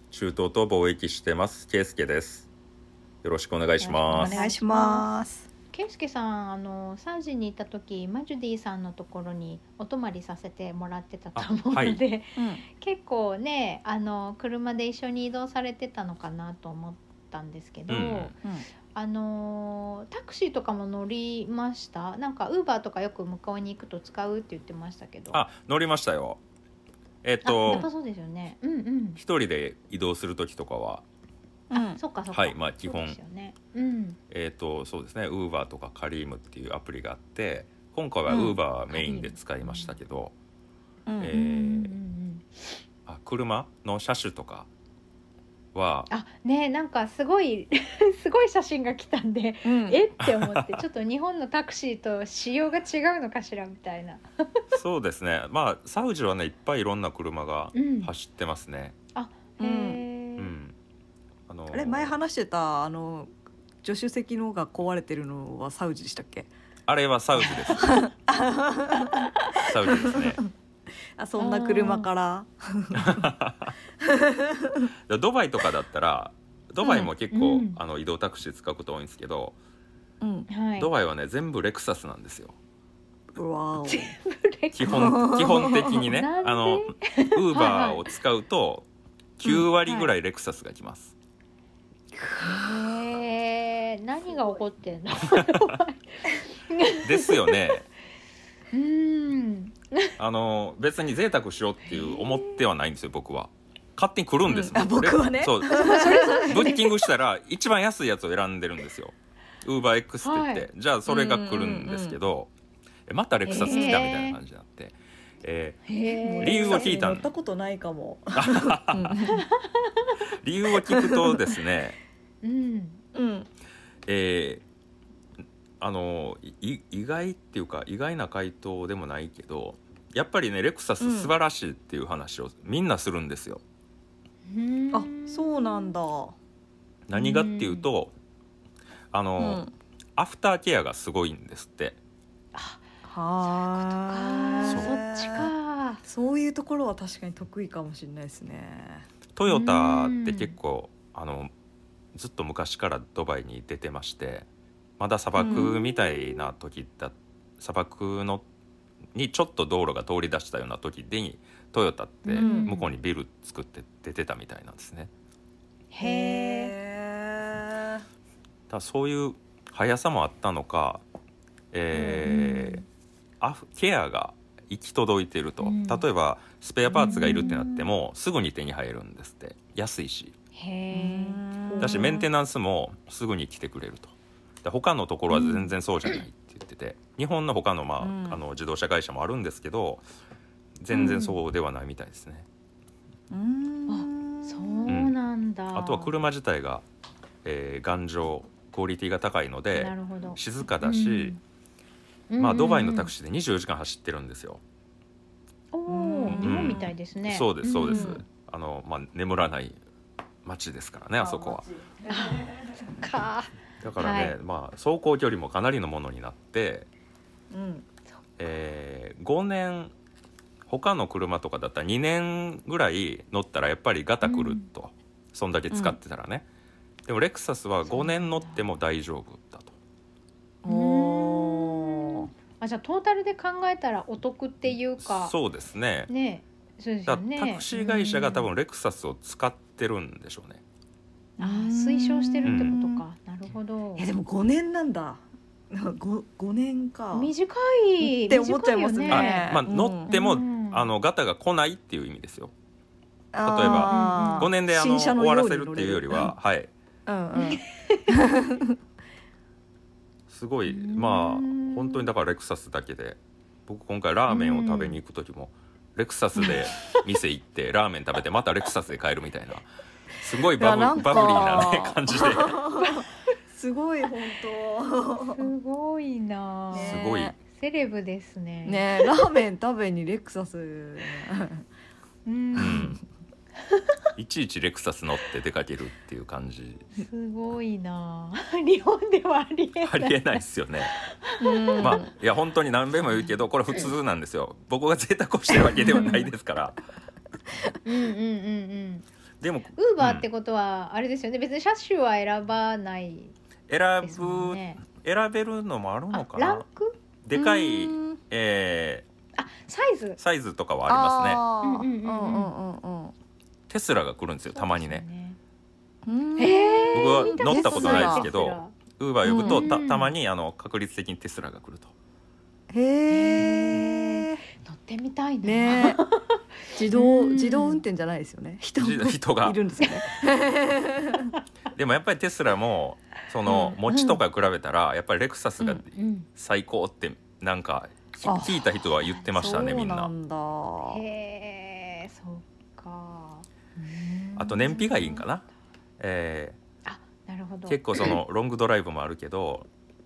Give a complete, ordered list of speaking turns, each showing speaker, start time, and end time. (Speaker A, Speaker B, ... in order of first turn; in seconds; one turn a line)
Speaker A: 0.1-2.5
Speaker A: 3.2-4.4
Speaker B: 3.8-5.1
Speaker C: 4.1-5.5
Speaker B: 5.7-18.4
Speaker A: 11.4-12.0
Speaker C: 12.4-12.6
Speaker A: 17.9-18.3
Speaker B: 18.9-25.4
Speaker A: 25.3-26.4
Speaker A: 27.2-27.9
Speaker B: 27.4-29.2
Speaker A: 29.2-31.0
Speaker C: 31.7-32.0
Speaker B: 31.7-34.2
Speaker A: 32.3-33.2
Speaker A: 34.3-40.3
Speaker C: 38.3-38.6
Speaker B: 38.9-40.0
Speaker C: 41.1-41.3
Speaker A: 41.2-41.9
Speaker B: 41.3-42.8
Speaker A: 43.1-44.7
Speaker A: 45.7-46.1
Speaker B: 46.1-54.6
Speaker C: 49.6-50.0
Speaker A: 50.2-50.8
Speaker A: 54.7-59.0
Speaker B: 57.7-58.1
Speaker B: 59.1-60.5
Speaker C: 59.6-60.0
Speaker A: 60.4-60.8
Speaker A: 61.5-62.1
Speaker C: 61.7-63.3
Speaker C: 63.8-66.5
Speaker A: 66.9-67.9
Speaker C: 67.4-70.5
Speaker A: 69.6-70.4
Speaker C: 71.2-73.2
Speaker B: 71.4-72.1
Speaker A: 73.0-73.8
Speaker C: 74.0-74.9
Speaker A: 75.1-79.6
Speaker C: 76.8-77.1
Speaker B: 77.3-77.8
Speaker C: 80.2-80.5
Speaker B: 80.5-80.9
Speaker A: 80.8-82.6
Speaker C: 83.3-84.2
Speaker B: 83.9-88.0
Speaker A: 84.7-88.9
Speaker C: 84.9-86.0
Speaker A: 89.4-91.1
Speaker B: 89.8-90.1
Speaker B: 92.3-97.6
Speaker C: 92.4-92.9
Speaker A: 95.4-95.7
Speaker A: 97.0-97.9
Speaker B: 98.7-100.1
Speaker A: 100.2-112.5
Speaker B: 101.8-102.6
Speaker C: 104.5-106.9
Speaker B: 105.7-106.9
Speaker B: 110.2-110.7
Speaker C: 111.1-112.2
Speaker A: 113.1-115.8
Speaker B: 113.5-114.4
Speaker C: 113.5-114.0
Speaker B: 115.9-117.0
Speaker C: 116.1-119.4
Speaker A: 116.4-117.3
Speaker A: 118.3-119.2
Speaker B: 119.3-120.1
Speaker A: 120.3-122.0
Speaker C: 120.8-121.6
Speaker B: 122.4-123.0
Speaker C: 123.2-123.5
Speaker A: 124.1-124.6
Speaker A: 125.8-133.6
Speaker C: 131.0-131.3
Speaker B: 134.5-136.0
Speaker C: 134.9-136.3
Speaker A: 137.1-138.1
Speaker B: 137.2-137.9
Speaker A: 139.1-139.6
Speaker C: 139.4-139.7
Speaker A: 140.2-142.0
Speaker B: 142.5-142.8
Speaker C: 143.0-145.5
Speaker B: 143.4-146.0
Speaker A: 144.6-144.9
Speaker C: 146.1-149.1
Speaker A: 149.4-151.5
Speaker B: 149.5-150.6
Speaker A: 152.1-154.5
Speaker A: 155.0-158.4
Speaker C: 155.4-155.7
Speaker B: 155.4-156.4
Speaker A: 159.1-165.1
Speaker B: 162.2-162.9
Speaker C: 162.3-162.7
Speaker B: 165.9-166.7
Speaker C: 166.0-168.0
Speaker A: 168.7-171.0
Speaker A: 171.7-172.8
Speaker B: 171.9-172.8
Speaker A: 173.4-180.3
Speaker B: 175.6-176.0
Speaker B: 176.9-177.6
Speaker C: 176.9-177.9
Speaker B: 180.6-182.2
Speaker C: 180.9-182.2
Speaker A: 181.8-190.0
Speaker B: 185.3-185.7
Speaker C: 188.0-188.4
Speaker A: 190.8-192.5
Speaker B: 190.9-191.4
Speaker C: 191.0-191.2
Speaker C: 193.3-194.9
Speaker B: 193.9-196.1
Speaker A: 194.9-195.2
Speaker A: 195.7-196.8
Speaker A: 197.4-201.4
Speaker B: 199.8-201.4
Speaker B: 202.3-203.1
Speaker A: 202.4-204.6
Speaker B: 205.7-208.2
Speaker C: 205.9-206.9
Speaker A: 206.3-209.8
Speaker C: 207.9-208.2
Speaker A: 210.4-211.7
Speaker C: 211.2-212.8
Speaker B: 212.1-214.3
Speaker A: 213.8-216.9
Speaker C: 217.5-217.9
Speaker A: 218.4-219.9
Speaker A: 220.7-226.5
Speaker B: 224.2-224.7
Speaker C: 225.7-226.0
Speaker A: 227.1-229.8
Speaker B: 227.8-228.7
Speaker C: 230.6-232.3
Speaker B: 230.7-235.3
Speaker A: 235.0-236.1
Speaker B: 236.1-238.5
Speaker A: 237.1-240.6
Speaker B: 241.4-244.1
Speaker C: 241.4-243.0
Speaker A: 242.4-242.7
Speaker C: 244.0-247.3
Speaker B: 247.1-250.9
Speaker C: 248.0-250.1
Speaker A: 249.1-252.5
Speaker C: 253.3-256.3
Speaker A: 253.4-256.7
Speaker B: 253.6-254.5
Speaker C: 257.1-258.7
Speaker B: 257.4-258.1
Speaker A: 260.3-269.7
Speaker B: 260.7-262.1
Speaker B: 264.3-265.0
Speaker A: 270.2-272.6
Speaker C: 270.6-275.5
Speaker B: 275.4-277.0
Speaker C: 276.7-277.4
Speaker A: 276.8-277.3
Speaker B: 277.5-279.1
Speaker C: 278.6-281.6
Speaker B: 282.3-282.9
Speaker A: 282.6-283.0
Speaker A: 284.2-286.9
Speaker B: 286.9-292.0
Speaker A: 289.8-290.9
Speaker C: 291.4-292.1
Speaker A: 291.8-296.8
Speaker B: 295.9-296.3
Speaker B: 297.8-299.1
Speaker A: 299.4-300.3
Speaker B: 299.8-303.3
Speaker A: 303.7-306.6
Speaker B: 304.0-304.8
Speaker B: 306.1-307.0
Speaker A: 307.2-309.1
Speaker C: 307.4-308.2
Speaker B: 309.4-310.2
Speaker A: 310.2-311.4
Speaker C: 310.9-313.1
Speaker B: 311.6-312.5
Speaker A: 313.7-315.1
Speaker B: 314.5-315.4
Speaker C: 316.1-318.3
Speaker B: 316.4-318.8
Speaker A: 316.9-321.9
Speaker C: 319.2-319.8
Speaker B: 319.4-320.1
Speaker C: 322.7-324.4
Speaker B: 323.1-327.8
Speaker C: 325.4-326.0
Speaker C: 326.7-331.3
Speaker A: 328.8-329.6
Speaker A: 331.7-340.1
Speaker C: 333.5-333.8
Speaker B: 333.9-334.2
Speaker B: 335.9-336.3
Speaker C: 338.2-338.7
Speaker B: 339.0-339.3
Speaker C: 339.3-341.0
Speaker B: 340.9-343.5
Speaker C: 343.8-344.8
Speaker A: 344.4-345.5
Speaker B: 344.7-345.2
Speaker A: 346.0-346.6
Speaker B: 346.9-348.1
Speaker A: 347.7-349.7